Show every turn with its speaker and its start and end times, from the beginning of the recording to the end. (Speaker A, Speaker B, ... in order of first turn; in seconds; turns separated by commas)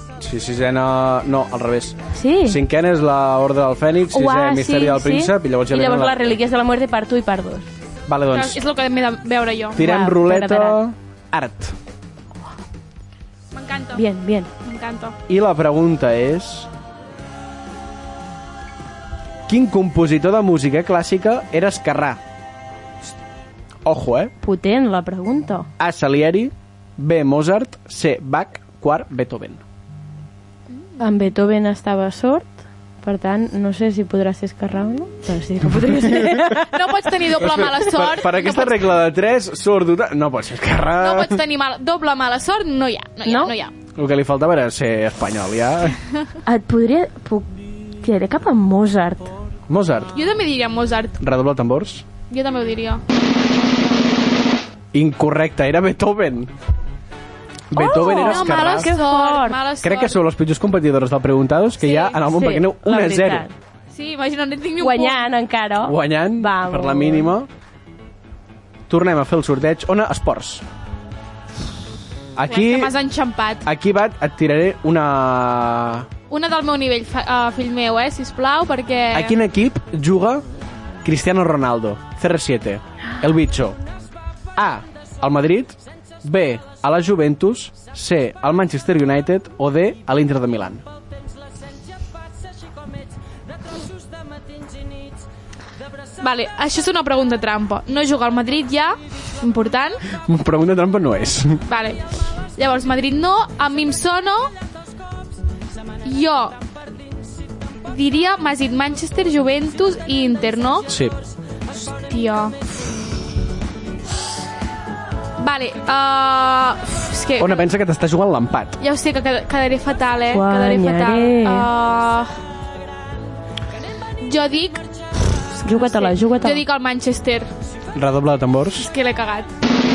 Speaker A: 0.2-6.4, Speaker B: 2.1-2.6, Speaker B: 4.1-7.7, Speaker A: 8.1-8.6, Speaker C: 8.3-9.8, Speaker A: 9.8-11.8, Speaker B: 9.8-10.8, Speaker C: 13.5-14.0, Speaker B: 13.9-14.5, Speaker C: 14.6-15.2, Speaker A: 15.3-16.7, Speaker A: 19.5-22.2, Speaker A: 23.8-24.3, Speaker B: 24.4-25.7, Speaker A: 25.8-29.6, Speaker B: 31.0-36.7, Speaker A: 35.9-36.4, Speaker C: 36.7-39.0, Speaker A: 37.3-41.4, Speaker C: 41.0-43.7, Speaker B: 43.3-43.5, Speaker A: 44.0-46.0, Speaker B: 46.5-49.3, Speaker A: 49.7-50.1, Speaker C: 50.1-51.2, Speaker A: 51.2-52.1, Speaker C: 52.3-53.0, Speaker A: 54.9-56.5, Speaker A: 57.7-58.9, Speaker B: 57.8-59.6, Speaker C: 58.0-60.2, Speaker A: 59.8-63.5, Speaker C: 61.8-62.2, Speaker B: 62.3-63.5, Speaker C: 63.9-65.3, Speaker B: 64.8-67.3, Speaker A: 65.8-67.5, Speaker A: 68.9-70.7, Speaker A: 72.3-73.0, Speaker C: 72.5-73.7, Speaker A: 73.6-76.1, Speaker C: 76.3-79.3, Speaker A: 79.1-80.5, Speaker A: 81.0-83.8, Speaker A: 84.6-90.8, Speaker C: 96.2-100.0, Speaker A: 100.2-101.6, Speaker C: 101.7-102.0, Speaker C: 102.6-104.5, Speaker C: 106.0-106.6, Speaker C: 107.9-110.9, Speaker A: 110.9-111.2, Speaker C: 112.0-113.0, Speaker C: 115.4-117.7, Speaker A: 117.4-118.8, Speaker C: 118.8-122.3, Speaker B: 120.3-121.7, Speaker C: 124.2-124.8, Speaker C: 125.6-127.5, Speaker B: 125.6-126.6, Speaker A: 127.9-128.9, Speaker C: 128.8-129.5